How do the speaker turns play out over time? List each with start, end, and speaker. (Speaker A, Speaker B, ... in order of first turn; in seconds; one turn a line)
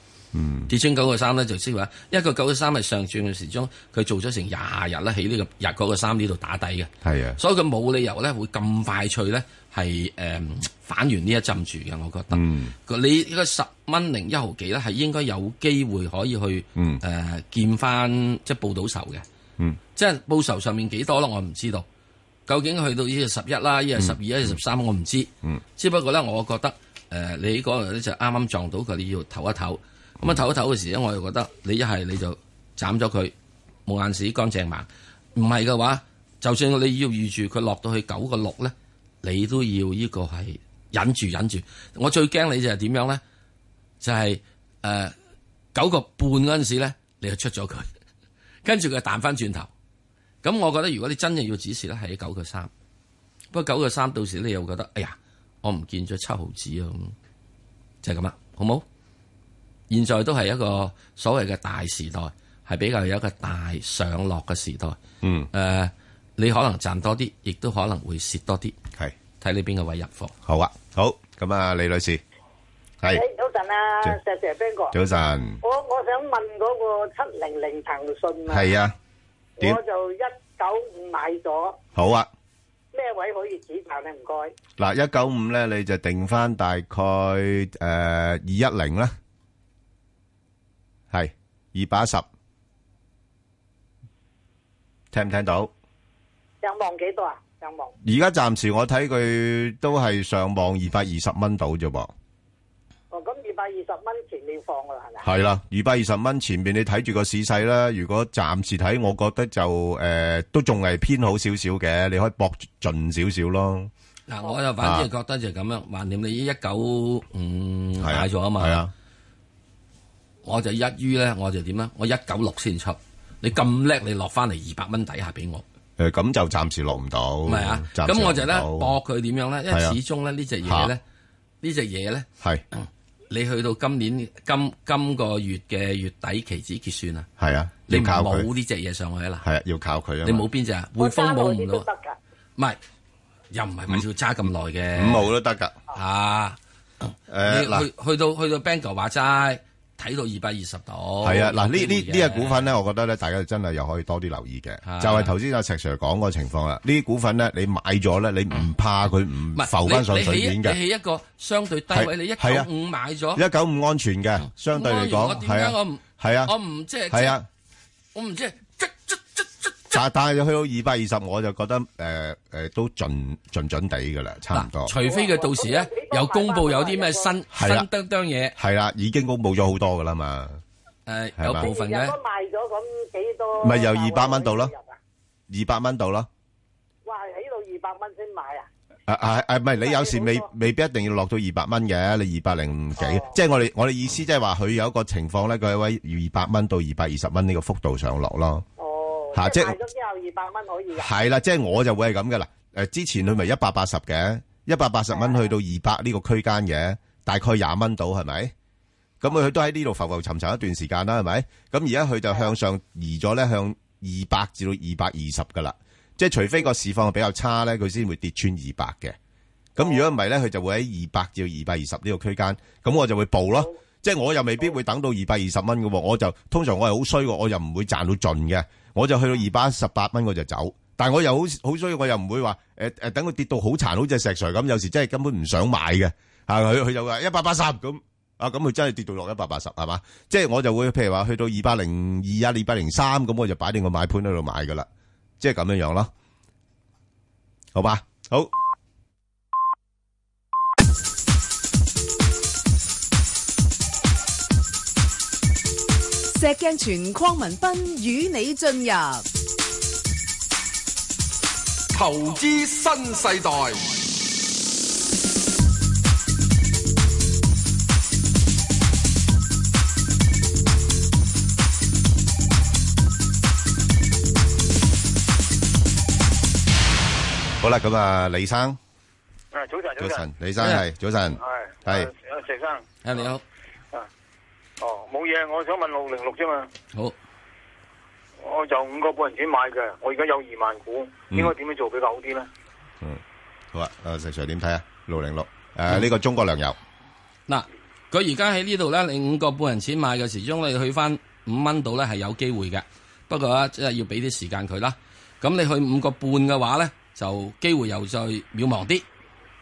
Speaker A: 0.3-0.7
Speaker B: 0.7-19.2
Speaker A: 7.0-7.4
Speaker A: 12.3-12.7
Speaker A: 16.8-17.0
Speaker B: 19.9-21.9
Speaker B: 22.5-33.3
Speaker A: 24.0-24.5
Speaker B: 33.9-43.2
Speaker B: 44.0-45.1
Speaker B: 45.8-47.9
Speaker B: 48.6-49.7
Speaker B: 50.4-52.7
Speaker B: 53.5-57.1
Speaker B: 58.0-58.8
Speaker B: 59.9-65.0
Speaker A: 65.2-65.5
Speaker B: 65.5-68.8
Speaker B: 69.4-70.3
Speaker A: 70.5-72.2
Speaker C: 73.1-75.0
Speaker A: 74.9-75.6
Speaker C: 75.6-78.7
Speaker A: 78.5-78.9
Speaker C: 79.6-81.8
Speaker A: 82.0-82.3
Speaker C: 82.9-84.5
Speaker A: 84.8-89.2
Speaker A: 91.1-92.3
Speaker A: 95.1-95.7
Speaker C: 96.6-97.9
Speaker A: 98.0-102.1
Speaker C: 103.1-105.3
Speaker A: 105.2-113.9
Speaker B: 114.3-118.8
Speaker A: 114.8-115.1
Speaker A: 118.0-118.9
Speaker B: 120.4-125.6
Speaker A: 126.0-129.0
Speaker B: 127.5-131.0
Speaker A: 129.7-130.0
Speaker A: 130.7-130.9
Speaker B: 131.6-137.3
Speaker A: 137.4-138.5
Speaker B: 137.9-139.4
Speaker A: 139.4-140.4
Speaker B: 140.2-141.9
Speaker C: 141.0-142.2
Speaker B: 143.5-145.3
Speaker A: 145.0-145.8
Speaker B: 145.9-152.7
Speaker A: 147.3-147.9
Speaker A: 151.2-160.8
Speaker B: 154.8-155.3
Speaker B: 159.6-163.4
Speaker A: 161.9-162.7
Speaker A: 163.3-166.5
Speaker B: 164.4-167.4
Speaker A: 167.1-167.5
Speaker B: 168.2-170.0
Speaker A: 169.9-174.9
Speaker B: 174.5-178.6
Speaker C: 174.9-177.4
Speaker A: 177.5-177.9
Speaker A: 178.6-180.6
Speaker B: 181.1-182.2
Speaker A: 181.4-181.7
Speaker C: 181.5-185.0
Speaker A: 183.6-184.7
Speaker A: 185.5-186.3
Speaker C: 187.1-188.7
Speaker A: 189.1-198.7
Speaker C: 189.8-190.5
Speaker C: 193.0-193.3
Speaker C: 198.8-201.1
Speaker A: 199.3-199.8
Speaker A: 200.9-208.5
Speaker C: 205.1-205.4
Speaker A: 209.2-219.2
Speaker A: 219.8-244.9
Speaker A: 245.4-246.1
Speaker A: 247.7-248.5
Speaker D: 256.4-259.3
Speaker E: 261.9-263.9
Speaker A: 277.6-278.8
Speaker F: 279.5-280.2
Speaker A: 280.0-282.1
Speaker B: 280.6-280.9
Speaker F: 281.4-282.9
Speaker B: 283.0-283.4
Speaker F: 284.8-286.7
Speaker F: 288.4-292.5
Speaker A: 293.7-296.8
Speaker B: 297.5-309.1